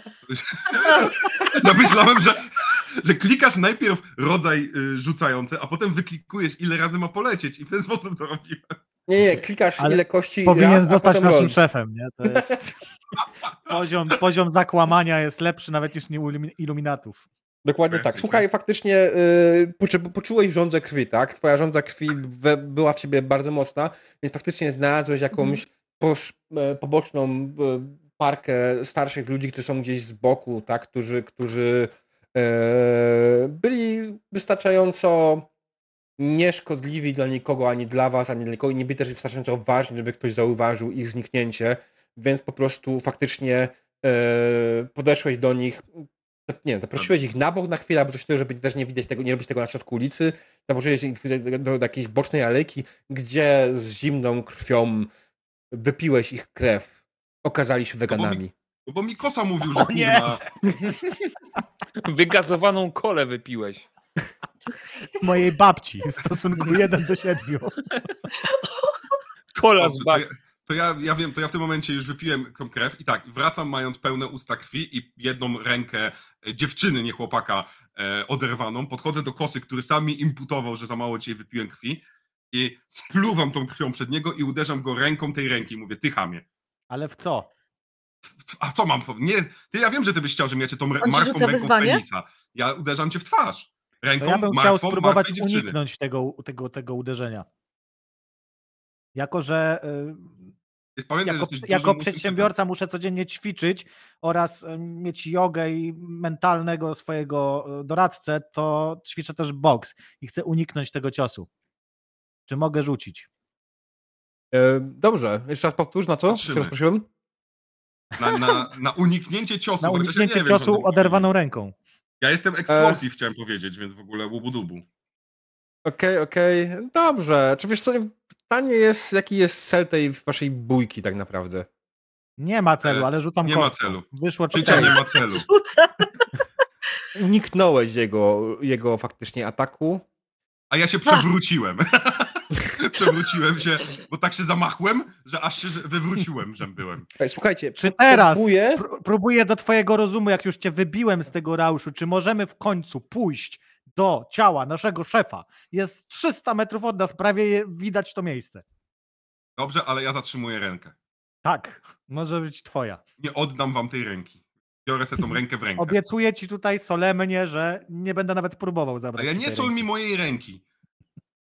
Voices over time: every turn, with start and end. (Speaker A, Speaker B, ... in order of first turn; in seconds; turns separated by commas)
Speaker A: 0.3-8.7, Speaker B: 9.1-11.6, Speaker C: 9.8-12.8, Speaker B: 12.2-12.6, Speaker C: 13.7-17.2, Speaker B: 17.6-35.5, Speaker A: 17.9-18.4, Speaker B: 36.2-45.9, Speaker B: 46.5-55.1, Speaker B: 55.7-58.5, Speaker A: 58.1-60.4, Speaker C: 59.7-60.4, Speaker D: 60.8-61.1, Speaker D: 62.0-63.9, Speaker C: 65.2-67.8, Speaker E: 68.4-69.0, Speaker D: 69.5-70.2, Speaker A: 69.8-86.4, Speaker C: 86.9-87.5, Speaker A: 88.4-95.8, Speaker E: 91.0-92.0, Speaker C: 94.2-97.5, Speaker C: 99.1-100.5, Speaker A: 101.0-102.5, Speaker C: 101.2-111.5, Speaker C: 112.5-113.3, Speaker B: 114.5-117.1, Speaker A: 116.3-116.7, Speaker A: 118.2-121.3, Speaker C: 118.2-118.6, Speaker C: 119.8-121.7, Speaker A: 122.2-124.8, Speaker B: 122.7-123.0, Speaker B: 125.8-131.7, Speaker C: 132.4-134.9, Speaker A: 132.8-135.5, Speaker B: 134.6-134.9, Speaker E: 134.7-136.2, Speaker B: 137.1-140.0, Speaker A: 140.7-147.1, Speaker B: 147.2-148.8, Speaker C: 147.8-158.6, Speaker A: 159.6-160.9, Speaker C: 161.4-163.0, Speaker A: 163.2-165.9, Speaker C: 165.8-169.8, Speaker A: 169.2-170.6